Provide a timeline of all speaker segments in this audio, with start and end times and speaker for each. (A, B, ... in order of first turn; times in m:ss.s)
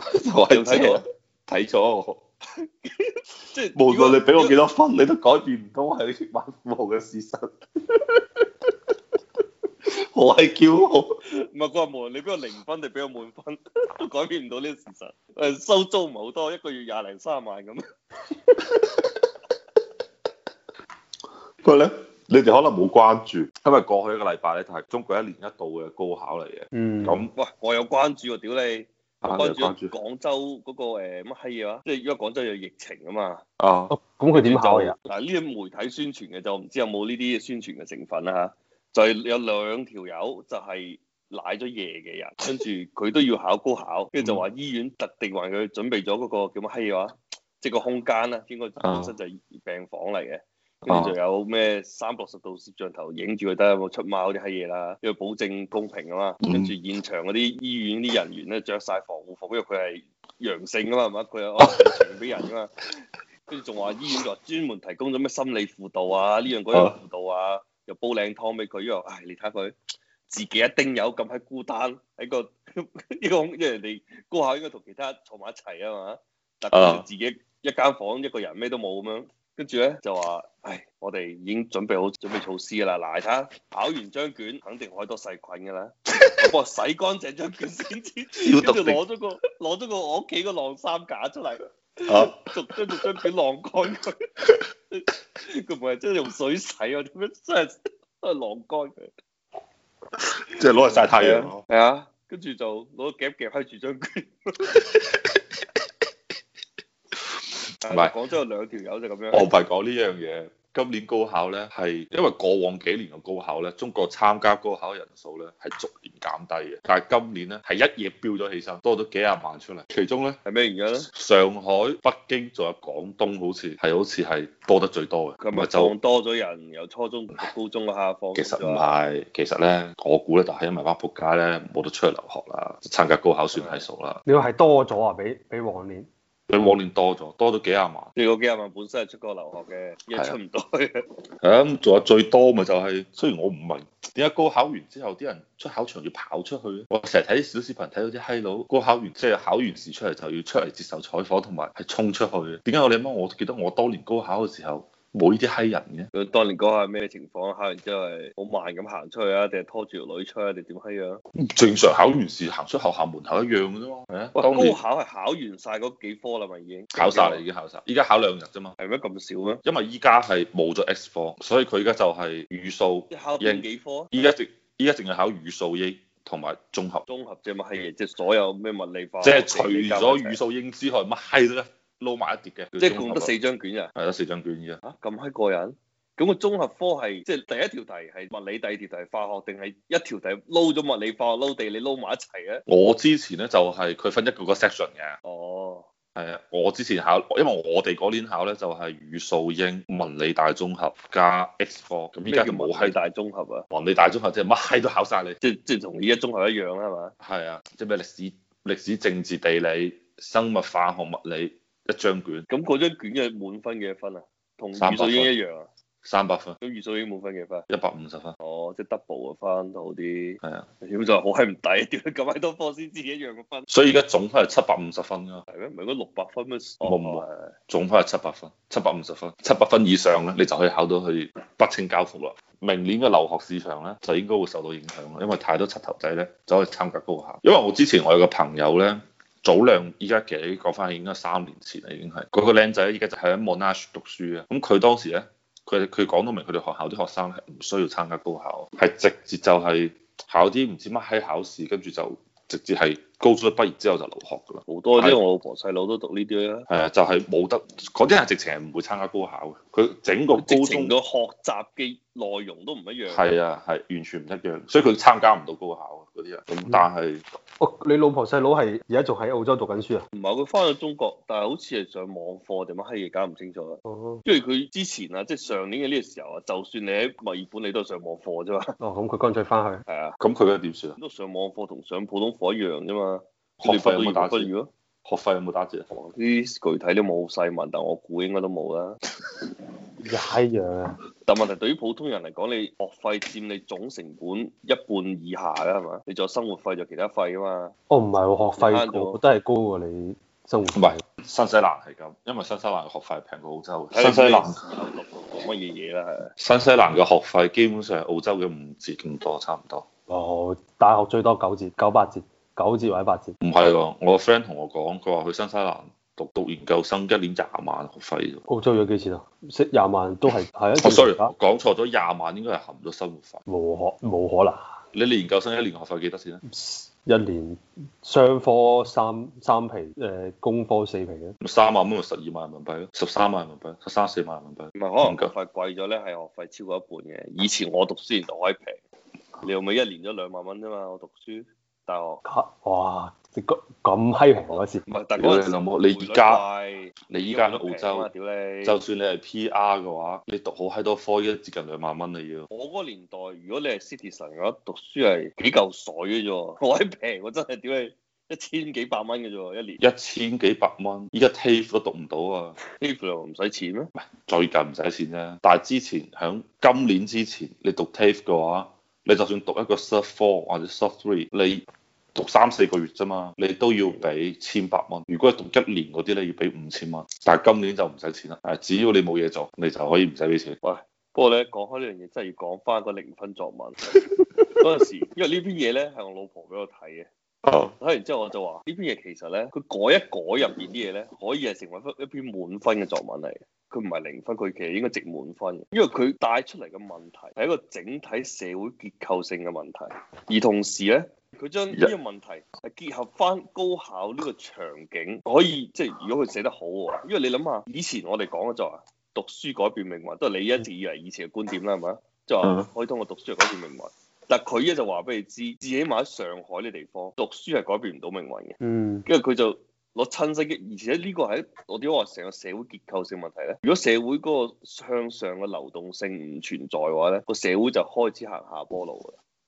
0:00.1-0:02.2 A
0:00.5-0:01.0 B
0:02.6-0:04.6 B
0:03.7-0:08.4 A
0:09.9-0:11.1 A
0:11.5-0:17.8 B
0:18.7-0:19.2 A
0:21.6-0:27.3 A
0:26.7-0:27.3 C
0:27.3-0:33.4 B
0:29.2-0:29.9 A
0:33.6-0:33.9 A
0:33.9-0:34.9 C
0:34.3-1:02.7 B
0:44.2-0:44.4 A
0:48.8-0:49.1 A
0:50.9-0:51.1 A
0:56.4-0:56.7 A
1:01.6-1:01.9 A
1:03.5-1:09.7 B
1:10.3-1:34.2 B
1:16.7-1:17.0 A
1:28.4-1:29.0 A
1:32.1-1:32.5 A
1:34.9-1:39.1 B
1:40.2-1:41.6 A
1:40.9-1:44.7 B
1:44.7-1:45.4 A
1:47.8-1:49.5 B
1:49.3-2:00.4 A
2:00.4-2:01.1 B
2:01.0-2:05.9 A
2:05.4-2:08.8 B
2:08.3-2:14.2 A
2:13.5-2:13.9 B
2:14.2-2:16.1 C
2:16.5-2:18.1 A
2:18.2-2:21.0 B
2:21.4-2:36.1 A
2:36.1-2:41.2 B
2:41.4-2:44.8 A
2:44.3-2:47.4 B
2:46.9-2:48.7 A
2:48.8-2:49.6 B
2:49.6-2:57.0 A
2:53.1-2:54.1 B
2:57.1-3:00.4 B
2:59.2-3:03.3 A
3:02.8-3:03.9 B
3:04.0-3:04.8 A
3:04.8-3:12.6 B
3:12.7-3:15.2 A
3:15.2-3:15.9 B
3:16.1-3:23.0 A
3:22.3-3:23.6 B
3:23.7-3:25.4 A
3:25.4-3:27.1 B
3:27.2-3:32.4 A
3:32.5-3:35.7 B
3:34.7-3:35.3 A
3:36.0-3:36.6 A
3:36.6-3:37.6 B
3:37.7-3:38.3 A
3:38.4-3:43.7 B
3:43.7-3:45.4 A
3:45.5-3:47.5 B
3:46.8-4:15.2 A
4:14.6-4:16.7 B
4:16.7-4:20.9 A
4:20.3-4:23.2 B
4:23.1-4:27.2 A
4:27.6-4:30.0 C
4:30.1-4:38.7 B
4:33.8-4:34.2 C
4:38.8-4:39.8 C
4:39.9-4:40.2 B
4:40.2-4:41.0 A
4:41.0-4:44.7 B
4:43.6-4:44.5 A
4:45.0-4:45.9 A
4:45.9-4:49.0 B
4:50.0-4:51.0 C
4:51.2-4:57.7 B
4:57.9-5:01.0 C
4:58.6-4:59.2 B
5:00.7-5:04.6 A
5:03.9-5:06.3 B
5:06.4-5:09.9 A
5:10.1-5:13.3 C
5:13.4-5:18.4 A
5:18.5-5:21.3 C
5:20.8-5:23.4 A
5:23.5-5:24.7 C
5:24.9-5:26.4 A
5:26.4-5:31.3 C
5:31.4-5:35.3 A
5:34.7-5:38.8 B
5:39.4-5:42.2 B
5:42.2-5:44.8 C
5:44.5-5:48.8 B
5:45.2-5:46.4 A
5:47.1-5:48.1 A
5:48.6-5:52.5 A
5:52.5-5:59.8 B
5:59.8-6:02.6 A
6:02.8-6:03.9 B
6:04.0-6:11.6 A
6:12.1-6:20.6 A
6:13.8-6:14.1 B
6:20.6-6:23.8 B
6:24.6-6:27.1 B
6:27.7-7:09.2 B
6:52.4-6:52.7 A
6:58.6-6:59.0 C